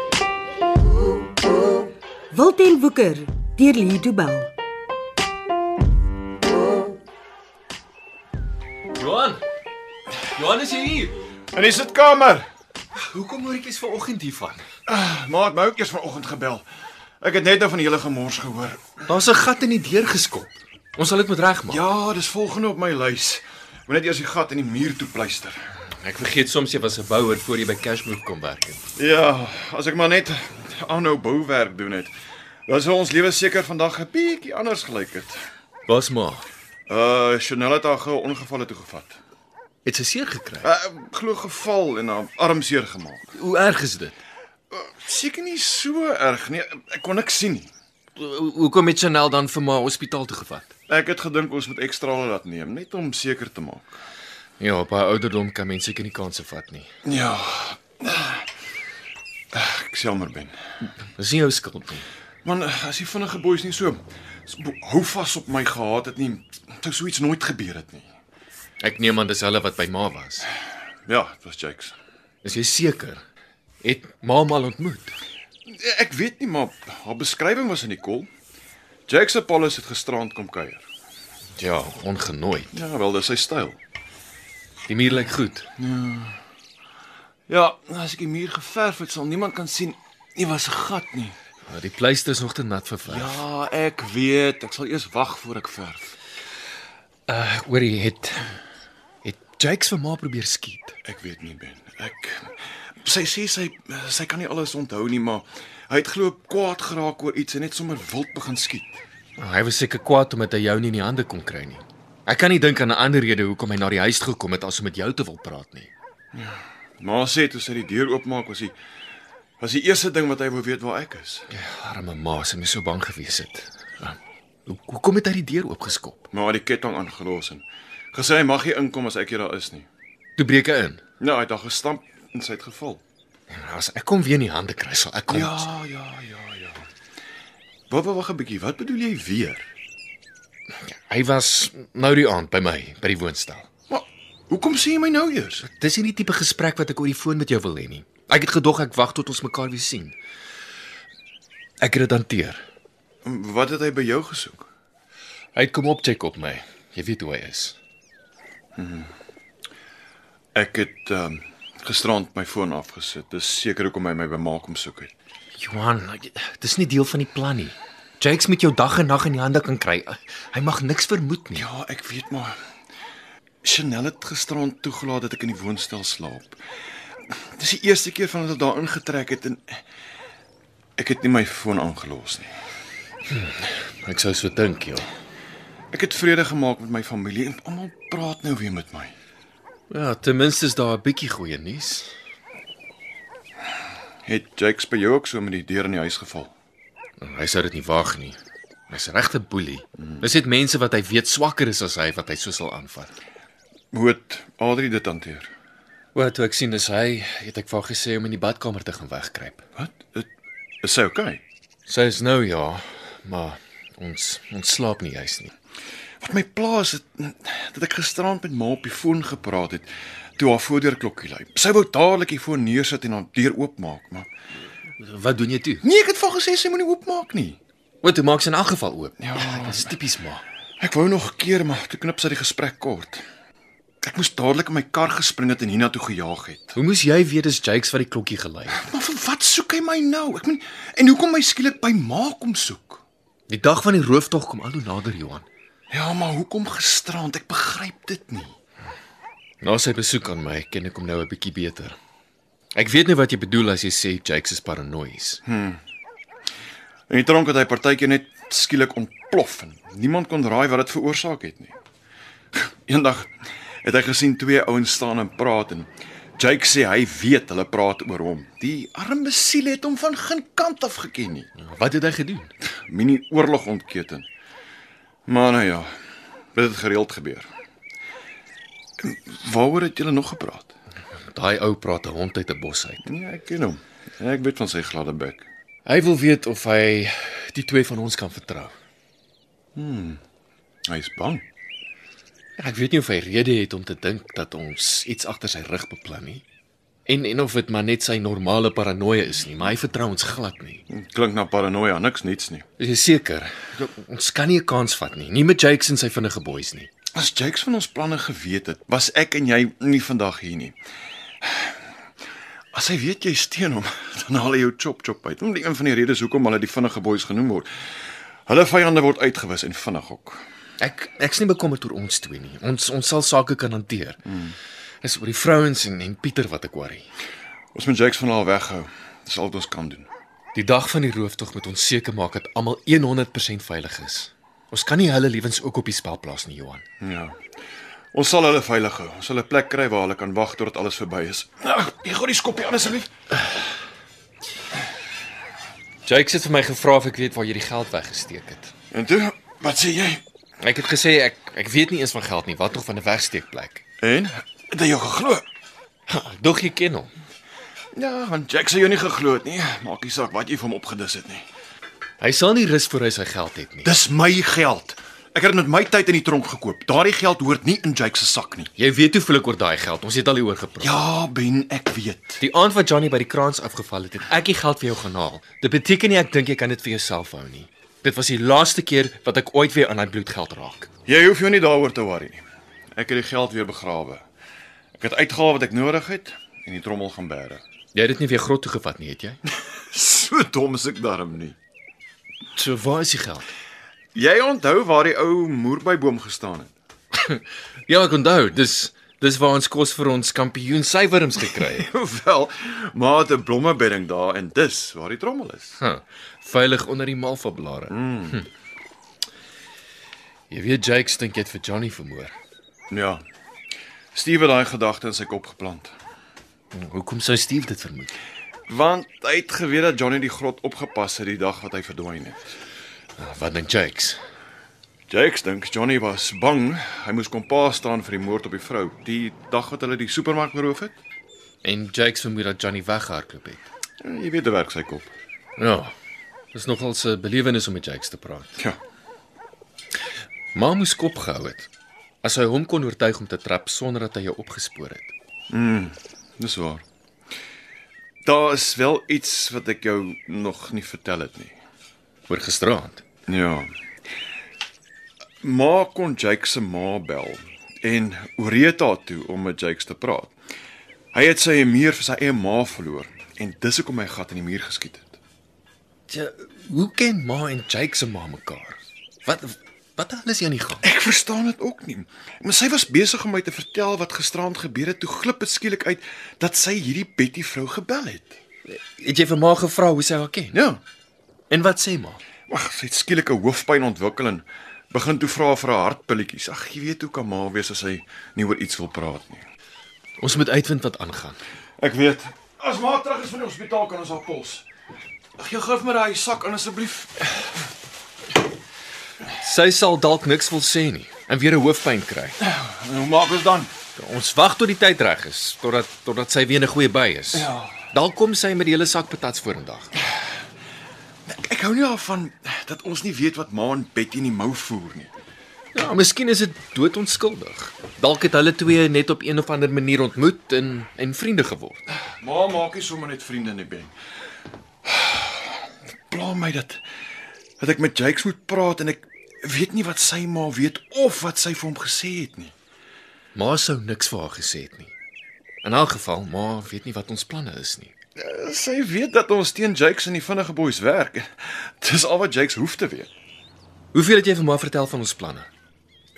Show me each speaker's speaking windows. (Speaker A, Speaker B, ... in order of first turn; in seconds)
Speaker A: 2.3-4.5
Speaker B: 8.9-9.4, 10.3-11.2, 12.9-14.6, 19.1-21.8, 26.0-28.8, 35.9-36.4, 39.8-40.7, 43.3-44.2, 48.1-50.7, 54.6-56.9, 61.1-62.0, 68.8-70.5, 72.4-73.2, 73.8-75.2, 81.6-82.7, 84.9-85.7, 91.7-93.4, 97.3-98.6, 99.2-100.9, 109.4-115.9, 121.5-126.3, 130.4-131.0, 133.5-135.7, 140.8-143.7, 145.6-150.2, 151.8-152.6, 155.5-157.8, 165.6-171.7, 183.3-185.1, 189.9-192.1, 197.2-198.4, 198.9-203.1, 206.1-209.6, 211.9-215.5, 225.0-225.8, 228.0-230.4, 236.7-238.8, 243.5-245.5, 249.6-251.9, 252.7-255.4, 271.6-272.5, 281.3-283.0, 285.9-288.7, 292.6-296.4, 297.1-300.8, 302.8-306.9, 320.8-324.2, 325.0-327.1, 330.5-336.8, 346.0-348.7, 350.6-353.8, 356.1-357.1, 362.2-363.9, 368.8-371.0, 372.4-380.9, 387.9-389.4, 392.5-393.5, 397.1-401.9, 405.8-408.4, 410.5-412.3, 416.7-418.1, 423.2-424.2, 431.6-433.6, 435.6-435.9, 436.5-438.6, 440.5-441.7, 442.2-445.1, 452.3-453.0, 466.1-470.8, 478.7-480.6, 481.5-482.2, 490.2-491.4, 499.4-502.4, 504.0-509.9, 515.7-521.9, 533.3-534.9, 535.6-537.9, 543.9-545.5
Speaker C: 11.5-12.5, 14.8-16.6, 17.2-19.0, 21.7-25.6, 28.9-32.1, 32.7-35.4, 36.9-39.2, 40.6-43.4, 44.7-47.7, 50.9-53.9, 57.0-58.4, 59.5-60.5, 62.4-68.1, 71.0-72.0, 75.7-78.3, 79.1-80.8, 82.7-83.8, 85.8-86.4, 87.5-91.3, 93.0-96.1, 101.0-109.0, 116.3-118.7, 119.6-121.5, 126.3-129.9, 131.2-133.0, 135.3-136.8, 137.9-139.7, 143.9-145.6, 153.2-154.7, 158.8-159.1, 160.5-165.1, 171.5-172.6, 173.6-176.6, 177.3-179.8, 181.0-182.5, 185.9-189.1, 194.2-196.5, 200.0-200.3, 203.9-205.5, 209.8-210.3, 210.8-211.4, 216.2-224.3, 225.8-227.6, 229.2-229.9, 230.8-233.2, 234.0-236.8, 238.7-243.0, 245.9-248.6, 255.4-255.8, 257.1-261.8, 262.5-271.5, 272.9-274.3, 275.3-275.9, 276.5-277.5, 279.0-280.7, 283.0-285.4, 289.7-290.2, 290.9-291.4, 300.9-302.7, 307.1-310.8, 311.4-311.7, 312.7-317.7, 318.5-320.4, 324.2-324.6, 327.7-330.1, 337.0-337.4, 338.1-343.1, 348.9-350.2, 354.0-355.4, 357.9-361.5, 363.8-368.7, 370.8-372.4, 381.1-382.4, 382.9-384.2, 385.0-387.6, 389.9-391.6, 394.1-396.7, 401.6-405.8, 407.9-408.4, 412.9-413.2, 414.1-415.9, 418.7-422.5, 425.1-431.0, 434.0-435.1, 445.5-446.8, 448.2-451.6, 453.3-453.7, 455.4-460.3, 461.1-465.2, 470.8-478.4, 480.5-480.8, 482.5-489.4, 491.8-494.6, 495.4-497.4, 502.4-503.7, 507.3-507.8, 511.2-515.1, 522.2-523.9, 524.8-526.8, 527.6-532.5, 538.1-543.1